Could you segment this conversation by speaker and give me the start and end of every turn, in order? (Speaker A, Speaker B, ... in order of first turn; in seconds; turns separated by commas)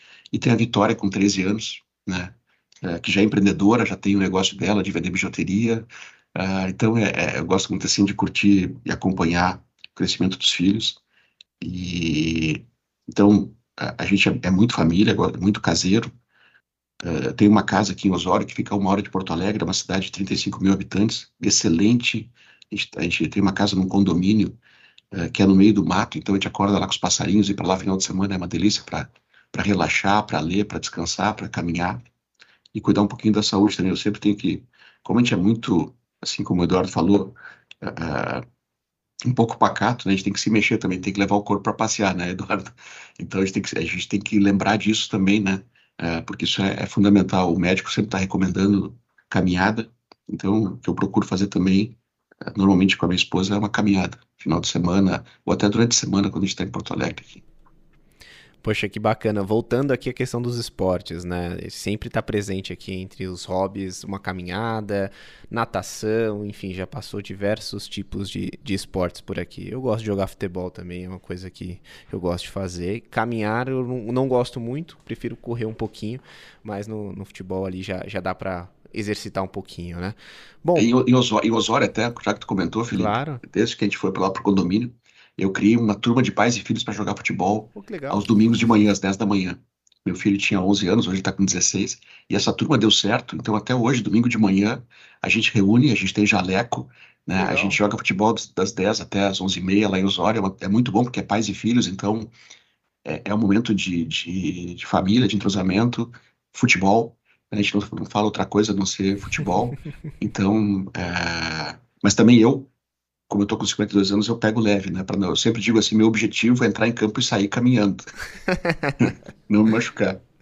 Speaker A: 0.3-11.0, Speaker A: 11.6-16.1, Speaker A: 17.0-24.6, Speaker A: 25.1-32.0, Speaker A: 32.7-38.5, Speaker A: 39.2-57.4, Speaker B: 58.6-80.9, Speaker A: 80.8-102.3, Speaker B: 82.9-83.4, Speaker B: 87.7-88.3, Speaker B: 97.4-97.8, Speaker A: 103.0-112.7, Speaker A: 113.3-118.2, Speaker B: 118.6-118.9, Speaker A: 119.0-120.2